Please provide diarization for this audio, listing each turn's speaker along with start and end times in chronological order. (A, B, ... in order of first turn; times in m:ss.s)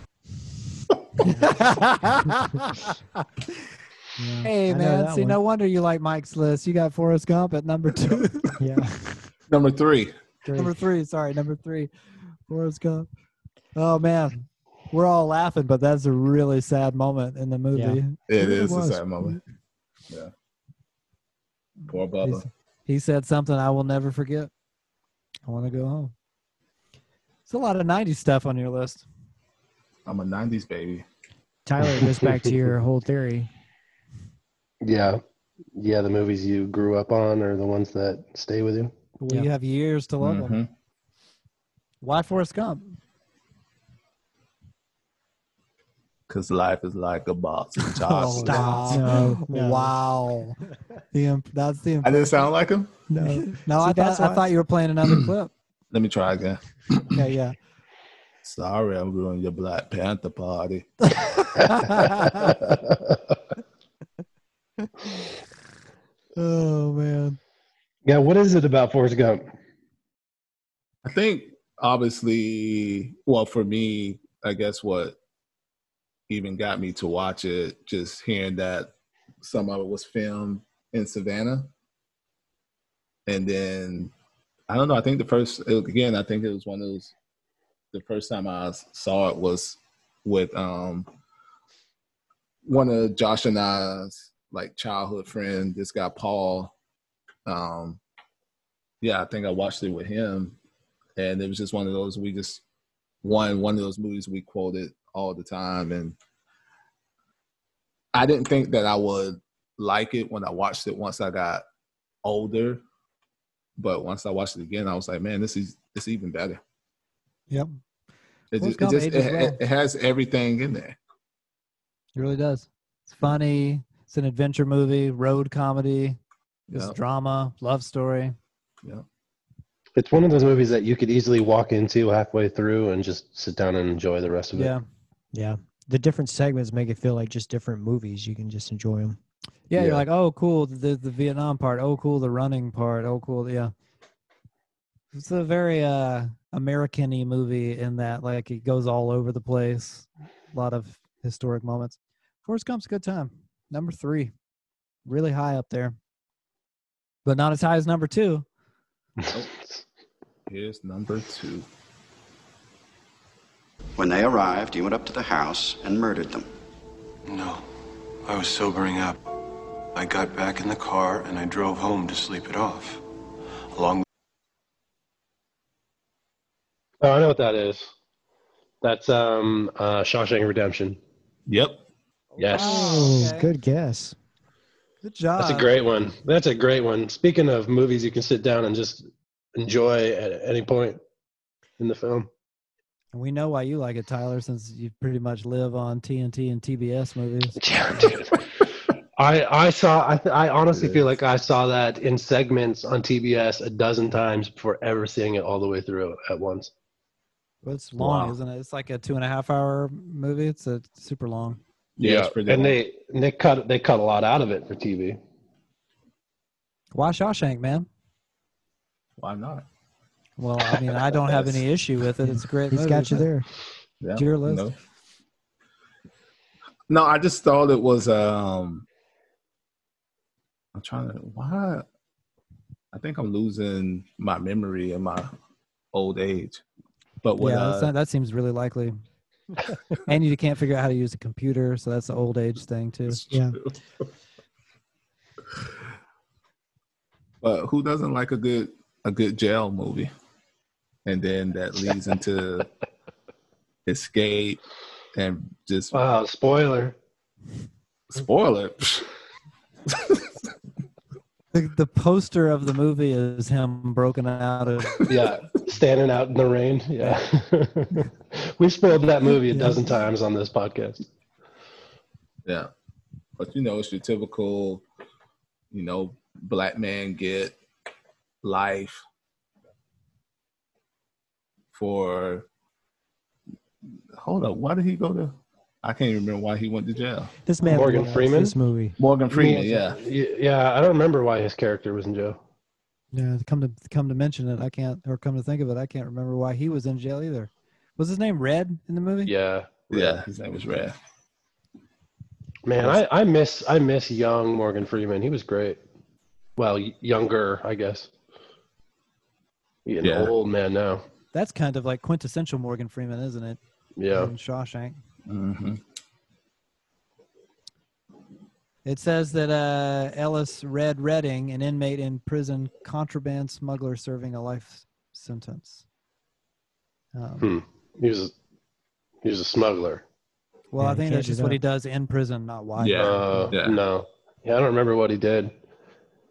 0:01.2-0:03.0 A
0:04.2-0:05.4 B
0:04.4-0:08.6 A
0:08.6-0:09.2 B
0:09.5-0:10.1 C
0:10.4-0:10.7 B
0:10.6-0:11.9 A
0:12.5-0:13.1 A
0:13.7-0:19.4 A
0:17.7-0:18.0 B
0:18.3-0:19.4 C
0:21.9-0:22.4 C
0:22.2-0:24.5 A
0:25.5-0:26.1 A
0:27.5-0:29.0 A
0:30.0-0:31.0 C
0:31.6-0:33.5 B
0:32.0-0:32.5 D
0:34.8-0:35.2 D
0:35.7-0:38.9 D
0:39.2-0:40.6 A
0:40.2-0:40.7 C
0:42.0-0:43.0 A
0:46.3-0:49.1 C
0:47.9-0:50.6 A
0:48.4-0:49.9 B
0:51.1-0:52.3 A
0:52.0-0:53.0 C
0:53.1-0:54.5 B
0:53.2-0:55.5 A
0:55.9-0:57.2 C
0:57.1-0:57.5 A
0:58.4-1:01.5 C
1:01.2-1:02.5 A
1:06.4-1:07.4 A
1:08.0-1:09.4 D
1:11.0-1:15.2 C
1:16.3-1:18.9 C
1:19.4-1:21.7 C
1:23.3-1:24.1 C
1:24.7-1:27.1 C
1:27.9-1:31.1 C
1:32.6-1:36.7 C
1:37.4-1:38.0 C
1:39.0-1:40.6 C
1:41.2-1:42.6 C
1:43.2-1:46.2 C
1:48.1-1:51.6 C
1:52.2-1:52.8 C
1:53.8-1:56.6 C
1:58.5-2:01.0 C
1:58.6-1:59.6 A
2:02.2-2:06.2 A
2:06.7-2:07.0 C
2:06.7-2:08.3 A
2:10.0-2:14.7 D
2:14.5-2:14.8 A
2:15.3-2:19.2 B
2:19.7-2:23.7 A
2:19.8-2:20.0 D
2:25.1-2:34.3 A
2:35.0-2:36.0 A
2:37.2-2:38.4 A
2:39.2-2:39.8 D
2:40.5-2:41.7 C
2:44.0-2:46.5 E
2:47.3-2:47.6 F
2:48.2-2:49.2 F
2:49.9-2:53.0 F
2:53.7-2:54.0 F
2:57.0-2:57.9 D
2:58.8-3:01.0 D
3:01.5-3:01.8 C
3:02.4-3:03.5 A
3:02.4-3:02.8 D
3:02.5-3:04.2 B
3:05.0-3:05.7 A
3:05.4-3:11.0 D
3:11.8-3:12.3 D
3:13.1-3:17.6 A
3:17.6-3:18.6 D
3:19.2-3:26.7 D
3:27.6-3:31.6 A
3:32.0-3:32.8 C
3:32.0-3:35.2 D
3:36.9-3:37.9 A
3:39.2-3:39.6 C
3:40.4-3:43.3 A
3:42.2-3:43.4 B
3:44.0-3:44.7 C
3:44.1-3:44.7 A
3:46.9-3:48.8 C
3:50.7-3:51.8 C
3:52.9-3:55.3 C
3:55.9-3:56.6 C
3:57.2-3:57.9 C
3:57.4-3:59.0 A
4:00.0-4:03.2 A
4:03.1-4:03.7 C
4:03.3-4:03.6 B
4:07.4-4:10.1 C
4:11.0-4:12.7 C
4:13.8-4:14.6 C
4:15.1-4:15.9 C
4:15.9-4:17.0 D
4:18.1-4:19.0 C
4:19.9-4:20.2 C
4:21.5-4:25.1 A
4:25.1-4:31.0 D
4:29.5-4:29.8 A
4:32.4-4:32.7 C
4:33.4-4:34.8 C
4:35.7-4:37.6 C
4:38.4-4:39.0 C
4:41.7-4:42.5 C
4:44.1-4:47.3 C
4:47.4-4:49.0 B
4:47.6-4:48.1 A
4:47.6-4:48.5 D
4:49.0-4:50.0 C
4:49.3-4:52.4 D
4:53.1-4:59.3 A
4:59.2-5:00.2 D
4:59.9-5:00.9 C
5:02.6-5:05.8 D
5:06.6-5:08.1 D
5:09.8-5:11.0 D
5:10.0-5:10.3 C
5:11.3-5:13.6 A
5:14.0-5:14.3 D
5:14.1-5:15.0 A
5:15.3-5:15.8 C
5:18.8-5:25.8 A
5:27.1-5:27.5 A
5:27.4-5:28.3 D
5:29.2-5:30.0 D
5:30.7-5:33.5 A
5:30.8-5:31.6 B
5:32.8-5:33.8 C
5:33.0-5:35.5 D